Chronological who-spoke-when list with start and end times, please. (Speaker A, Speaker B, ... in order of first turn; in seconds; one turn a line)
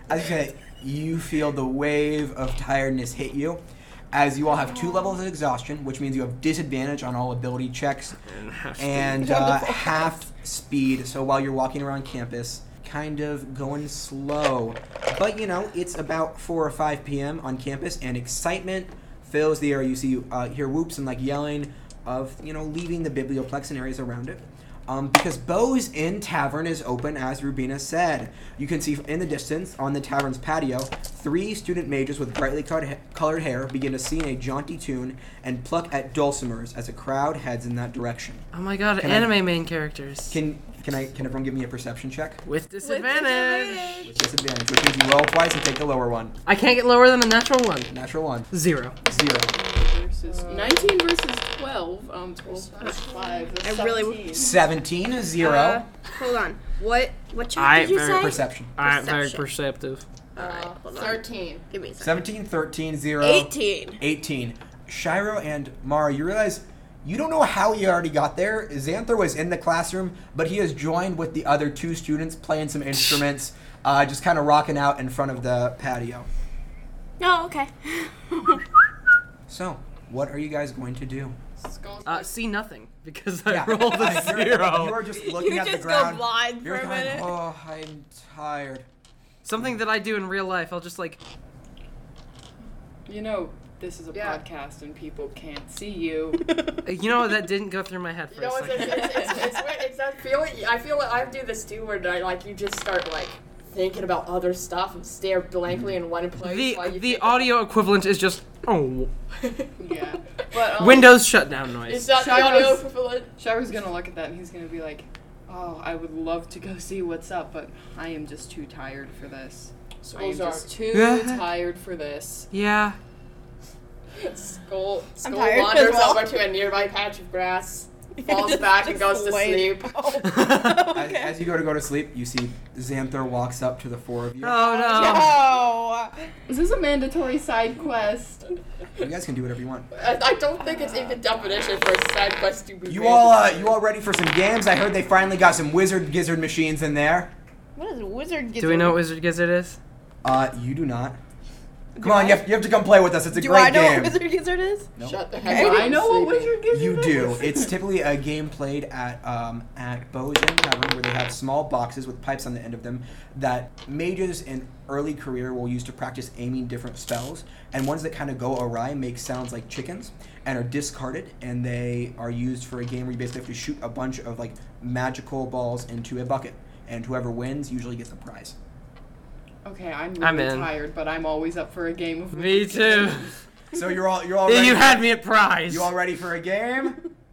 Speaker A: 0.1-8.2
Speaker B: 8.3-9.4
Speaker A: 8.8-38.5
Speaker C: 9.2-10.1
Speaker B: 38.5-40.4
Speaker A: 39.0-39.4
Speaker A: 40.3-42.4
Speaker B: 42.5-44.1
Speaker C: 42.8-44.1
Speaker A: 44.0-46.4
Speaker B: 46.5-47.9
Speaker A: 47.9-48.5
Speaker B: 48.5-49.0
Speaker A: 49.0-49.6
Speaker D: 49.1-54.6
Speaker E: 50.2-51.0
Speaker E: 52.4-53.6
Speaker C: 53.6-54.5
Speaker A: 54.3-55.8
Speaker C: 55.4-59.5
Speaker B: 57.6-60.0
Speaker A: 58.1-58.7
Speaker C: 60.4-62.2
Speaker E: 60.4-61.6
Speaker A: 62.0-76.3
Speaker C: 63.2-64.0
Speaker C: 77.2-78.6
Speaker A: 79.5-81.4
Speaker E: 81.6-82.4
Speaker B: 82.0-85.0
Speaker A: 83.5-88.9
Speaker C: 85.2-87.3
Speaker B: 89.4-91.2
Speaker D: 93.1-96.5
Speaker E: 94.1-94.4
Speaker C: 96.5-96.8
Speaker B: 96.8-99.3
Speaker E: 98.3-107.5
Speaker C: 99.2-99.6
Speaker B: 106.4-109.1
Speaker E: 109.4-109.7
Speaker D: 109.8-111.2
Speaker B: 110.7-112.2
Speaker E: 111.8-113.3
Speaker D: 112.2-112.9
Speaker D: 113.4-122.5
Speaker E: 120.0-120.7
Speaker B: 120.9-121.5
Speaker B: 122.5-123.0
Speaker E: 124.2-129.9
Speaker C: 125.2-126.4
Speaker C: 128.2-131.4
Speaker B: 130.2-130.9
Speaker A: 130.9-134.6
Speaker B: 134.4-135.3
Speaker C: 134.8-136.1
Speaker D: 134.9-135.4
Speaker D: 136.5-138.6
Speaker A: 139.0-139.9
Speaker E: 139.9-143.8
Speaker A: 142.9-147.3
Speaker C: 147.8-149.0
Speaker B: 148.6-149.8
Speaker A: 150.2-151.2
Speaker C: 152.0-152.5
Speaker A: 152.0-154.2
Speaker C: 153.3-154.9
Speaker E: 155.0-156.7
Speaker D: 155.4-157.7
Speaker C: 155.5-156.0
Speaker A: 156.7-178.6
Speaker D: 179.6-183.3
Speaker B: 180.2-180.7
Speaker B: 182.3-183.3
Speaker A: 183.7-185.1
Speaker B: 184.5-185.9
Speaker A: 185.7-187.0